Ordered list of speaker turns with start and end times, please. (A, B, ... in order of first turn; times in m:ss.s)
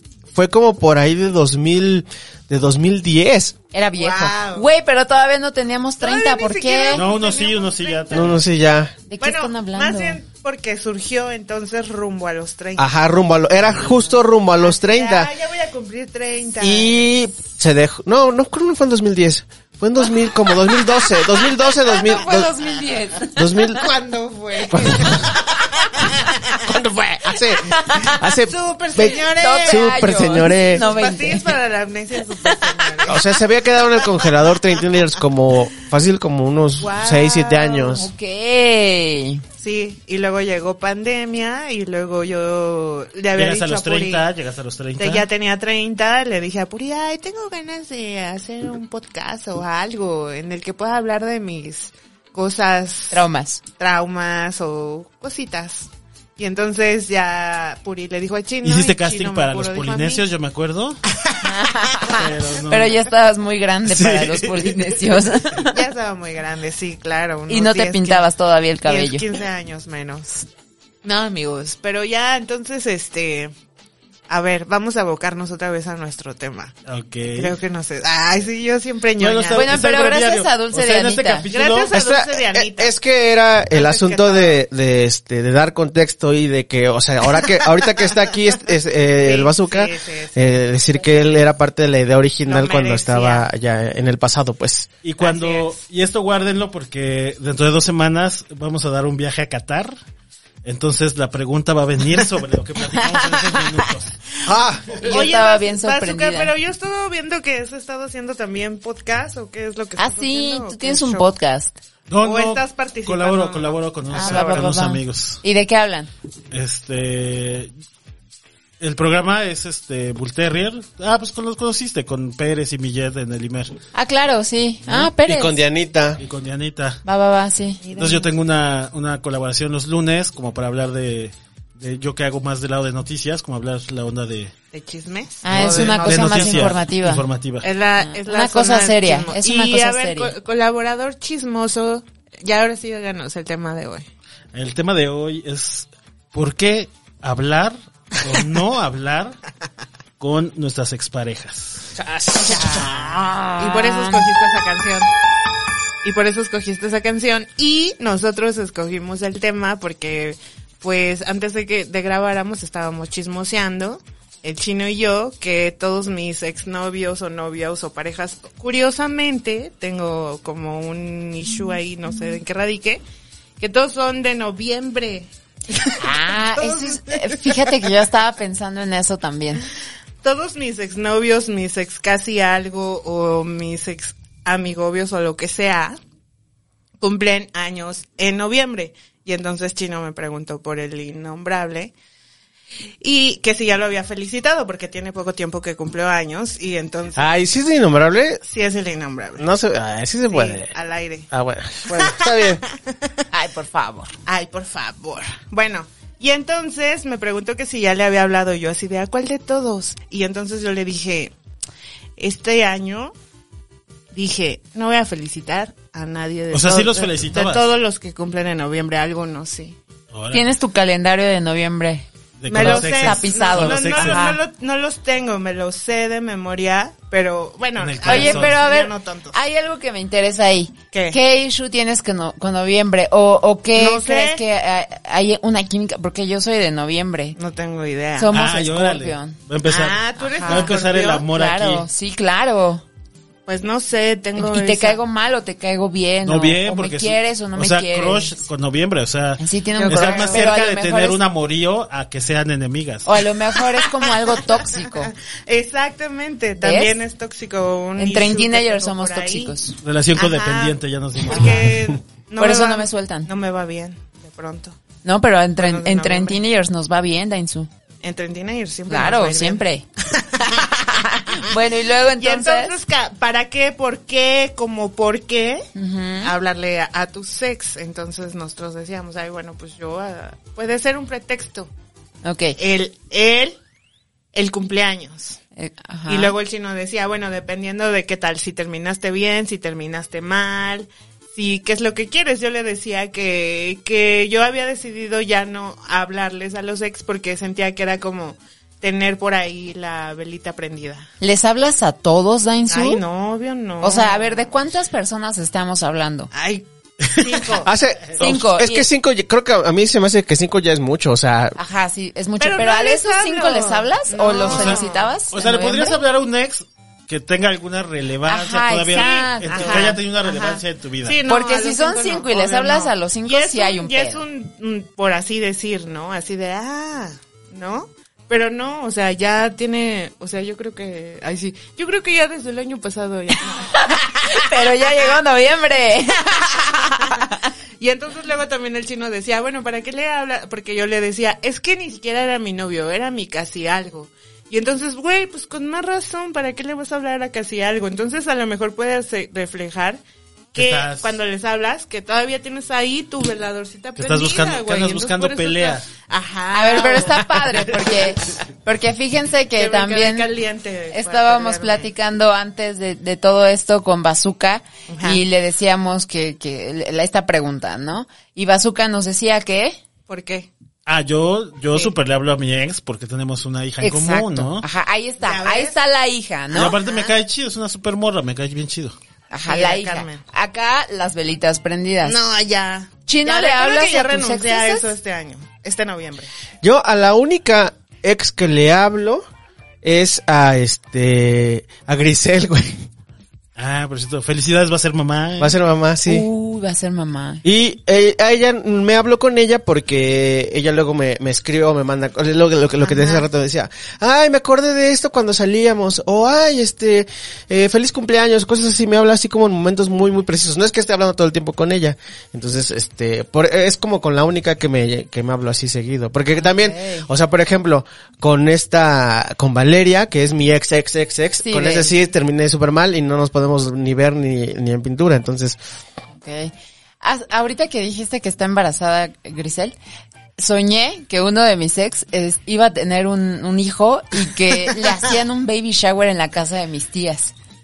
0:00.3-0:03.5 A
0:03.7-0:07.0 B
0:03.9-0:04.6 C
0:06.0-0:08.4 C
0:06.9-0:08.4 D
0:08.1-0:08.9 A
0:09.1-0:10.2 B
0:09.2-0:12.9 C
0:12.8-0:15.3 A
0:14.6-0:17.0 C
0:16.6-0:22.5 A
0:21.7-0:22.2 C
0:22.1-0:23.7 B
0:23.4-0:23.8 A
0:23.6-0:26.3 C
0:24.7-0:25.3 A
0:26.6-0:30.9 A
0:28.5-0:29.9 C
0:29.3-0:31.6 B
0:30.6-0:33.3 C
0:33.0-0:38.1 A
0:36.8-0:38.0 C
0:37.9-0:39.4 B
0:39.6-0:44.3 C
0:43.3-0:45.3 D
0:45.0-0:53.2 C
0:53.1-0:53.6 B
0:53.8-1:00.2 C
0:58.6-1:01.0 D
1:01.4-1:05.8 B
1:02.1-1:03.0 D
1:03.9-1:04.9 D
1:05.7-1:08.3 C
1:07.5-1:09.2 B
1:08.8-1:10.5 C
1:11.0-1:13.5 C
1:14.3-1:16.7 C
1:16.9-1:17.6 D
1:17.4-1:19.7 C
1:19.2-1:21.9 D
1:19.5-1:21.5 B
1:21.5-1:22.9 C
1:21.9-1:34.9 A
1:23.7-1:24.6 C
1:29.2-1:30.5 C
1:32.5-1:33.4 C
1:35.0-1:39.9 D
1:35.2-1:35.8 C
1:40.6-1:44.1 D
1:43.0-1:43.6 B
1:44.4-1:45.2 A
1:45.0-1:46.5 B
1:45.0-1:51.3 C
1:50.0-1:51.7 B
1:52.1-1:55.4 D
1:52.2-1:54.6 C
1:54.1-1:56.1 B
1:56.5-1:57.7 D
1:58.8-2:03.7 D
2:03.9-2:05.6 B
2:05.2-2:06.2 A
2:06.2-2:07.0 D
2:07.0-2:07.8 B
2:07.8-2:08.3 C
2:08.0-2:14.5 D
2:14.7-2:16.8 C
2:15.4-2:17.2 B
2:15.5-2:17.7 D
2:17.6-2:24.1 C
2:18.0-2:20.3 B
2:24.5-2:29.4 D
2:30.2-2:31.9 D
2:32.0-2:32.6 A
2:32.4-2:35.1 C
2:32.5-2:34.3 B
2:36.0-2:53.0 C
2:53.6-2:57.8 C
2:56.0-2:59.6 B
3:00.2-3:06.0 C
3:07.0-3:11.9 C
3:13.0-3:17.3 C
3:17.1-3:18.4 A
3:18.4-3:19.4 C
3:19.4-3:20.7 A
3:20.3-3:21.3 C
3:21.3-3:22.6 A
3:21.9-3:23.1 C
3:23.3-3:24.1 B
3:24.3-3:31.3 C
3:32.2-3:33.1 C
3:34.1-3:39.8 C
3:36.5-3:37.7 D
3:40.1-3:40.5 D
3:40.3-3:44.4 B
3:42.4-3:44.2 D
3:42.5-3:49.4 C
3:47.8-3:48.6 D
3:48.0-3:57.4 B
3:50.9-3:51.2 C
3:53.7-3:54.4 C
3:57.4-3:58.3 C
3:58.2-3:59.4 B
3:58.3-4:01.8 D
3:59.6-4:01.3 C
4:00.2-4:00.7 B
4:01.3-4:02.8 B
4:03.4-4:05.0 C
4:04.4-4:08.4 B
4:06.2-4:13.1 D
4:09.4-4:11.2 B
4:09.8-4:10.5 C
4:13.0-4:15.1 B
4:13.7-4:14.4 C
4:15.5-4:19.5 C
4:16.6-4:17.0 B
4:18.0-4:19.8 B
4:19.8-4:21.8 D
4:20.2-4:24.8 C
4:22.4-4:23.3 B
4:25.0-4:27.7 B
4:25.6-4:26.4 C
4:28.0-4:29.6 C
4:28.9-4:29.8 B
4:30.1-4:30.7 C
4:30.5-4:32.7 B
4:32.2-4:35.7 C
4:35.7-4:36.3 B
4:36.2-4:41.7 C
4:42.2-4:42.5 B
4:42.6-4:43.6 C
4:44.3-4:45.4 C
4:45.6-4:46.4 B
4:46.1-5:01.1 C
5:01.2-5:03.0 B
5:02.7-5:04.5 C
5:03.8-5:06.3 B
5:06.3-5:07.7 C
5:07.6-5:11.6 A
5:08.2-5:08.9 B
5:11.6-5:16.0 B
5:12.4-5:15.1 C
5:14.4-5:21.2 D
5:18.3-5:20.0 B
5:18.9-5:35.2 C
5:21.3-5:24.2 B
5:33.7-5:37.3 B
5:37.8-5:50.0 C
5:50.5-5:58.1 C
5:50.6-5:51.2 D
5:54.0-5:55.8 D
5:56.5-6:00.3 B
5:59.6-6:01.9 C
6:00.9-6:09.8 B
6:04.9-6:05.2 C
6:10.1-6:10.5 C
6:10.8-6:14.6 D
6:13.8-6:16.8 B
6:15.2-6:15.7 C
6:16.5-6:17.1 C
6:16.5-6:19.0 D
6:19.3-6:22.2 B
6:19.5-6:20.2 C
6:22.0-6:26.3 C
6:23.1-6:24.9 B
6:26.6-6:29.2 A
6:29.8-6:32.9 A
6:33.6-6:35.6 D
6:35.4-6:36.2 A
6:36.1-6:37.4 B
6:37.4-7:05.6 A
6:42.8-6:43.2 C
6:56.4-6:57.1 B
7:01.4-7:01.9 B
7:06.2-7:09.7 B
7:10.4-7:17.3 B